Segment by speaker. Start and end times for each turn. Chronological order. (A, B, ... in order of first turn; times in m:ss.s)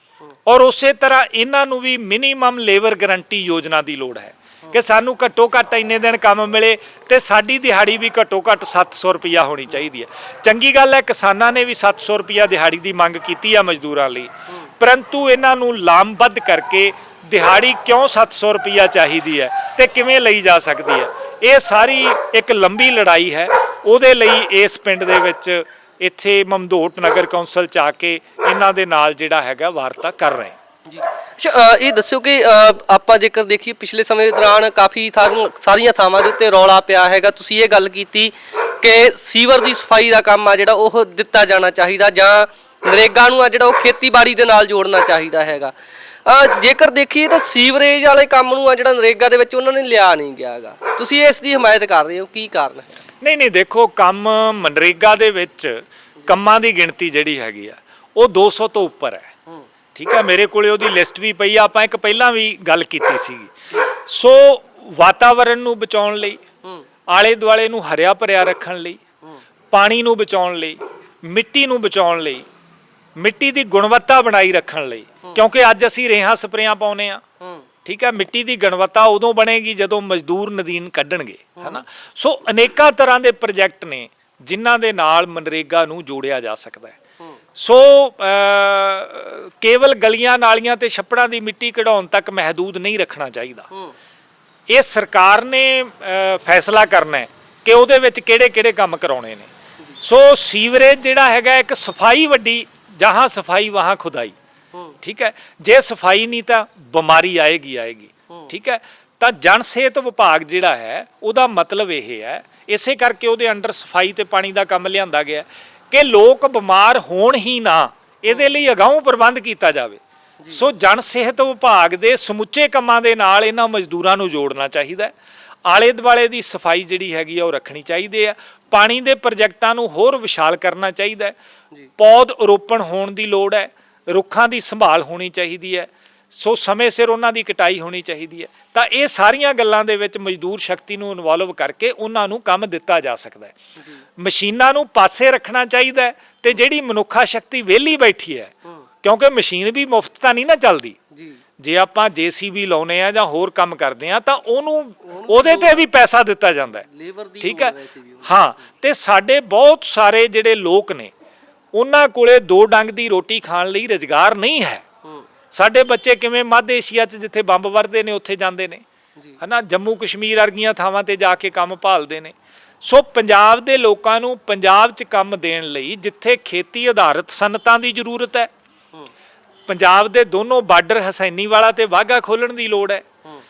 0:00.5-0:30.6 A
0:30.9-0:45.7 B
0:46.2-0:53.0 B
0:53.2-0:59.3 A
1:00.0-1:03.5 A
1:04.1-1:06.4 A
1:07.1-1:09.0 A
1:09.7-1:12.5 A
1:13.2-1:17.2 A
1:17.4-1:17.7 B
1:17.8-1:27.0 A
1:27.6-1:33.7 A
1:34.7-1:39.5 A
1:40.0-1:44.4 A
1:45.0-2:00.0 A
2:00.5-2:05.1 A
2:05.7-2:11.4 A
2:12.0-2:23.6 A
2:23.8-2:24.0 B
2:24.2-2:31.0 A
2:31.2-2:31.4 B
2:31.6-2:36.8 A
2:35.1-2:35.9 B
2:36.8-2:38.4 B
2:37.4-2:41.1 A
2:41.7-2:44.9 A
2:45.5-2:48.8 A
2:49.4-2:58.5 A
2:59.7-3:03.0 A